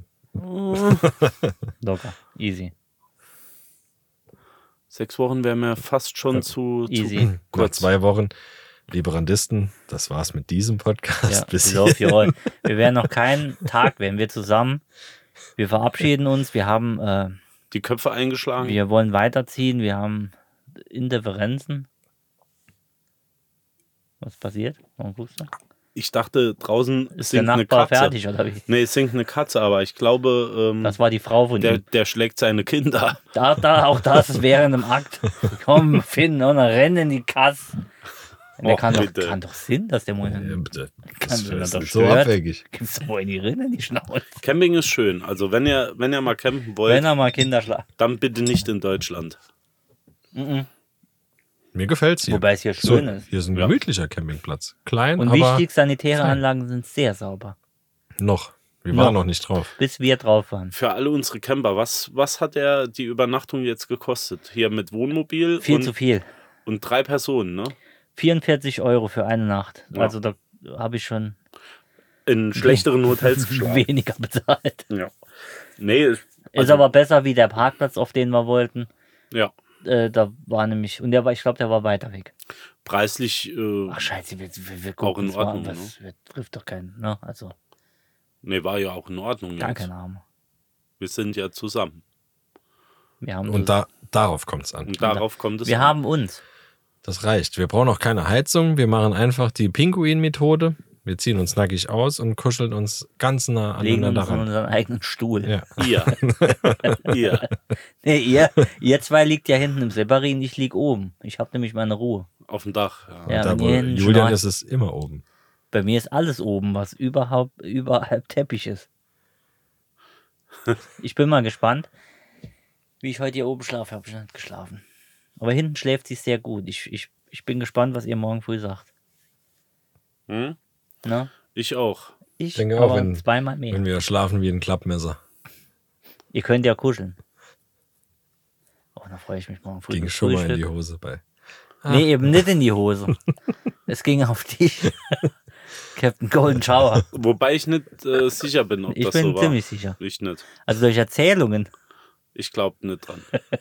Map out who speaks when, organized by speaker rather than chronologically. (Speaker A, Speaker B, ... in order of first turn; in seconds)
Speaker A: 0.4-1.0, 4.9-7.9, 17.7-18.8, 25.9-28.1, 28.7-31.0, 31.6-33.2, 38.6-39.4, 44.4-47.1, 48.0-49.4, 60.7-65.9, 66.7-67.7, 72.2-73.8, 75.8-76.8, 82.8-84.0, 85.0-85.9, 88.4-89.9, 91.0-92.0, 94.9-95.9, 105.8-106.2, 107.0-107.5, 112.5-113.4, 130.3-130.6, 131.5-132.1, 147.1-150.4, 152.3-153.2
Speaker B: 1.1-1.5, 7.3-8.3, 8.9-12.3, 40.3-42.6, 51.7-55.6, 58.2-59.7, 93.5-94.9, 97.0-104.5, 105.5-106.9, 113.3-115.2, 132.5-135.2, 139.9-141.2, 141.8-142.4
Speaker C: 1.8-2.7, 6.9-7.3, 11.3-14.8, 15.6-17.4, 18.6-21.9, 24.2-25.5, 27.2-28.6, 30.8-31.8, 33.3-37.8, 38.6-44.4, 46.9-47.9, 50.3-50.7, 52.3-53.2, 55.2-57.5, 58.9-59.2, 59.8-60.7, 65.6-66.2, 68.2-71.4, 72.5-74.8, 76.5-78.9, 79.8-82.3, 83.9-87.5, 89.6-90.2, 93.2-93.8, 95.0-96.4, 103.8-105.5, 106.8-107.1, 108.0-112.3, 113.3-114.4, 115.7-118.9, 121.0-121.9, 123.0-124.8, 125.4-128.9, 131.0-131.3, 132.4-133.8, 136.3-137.2, 138.9-140.6, 141.9-143.2, 143.9-145.2, 145.9-147.1, 148.9-150.0, 150.6-151.7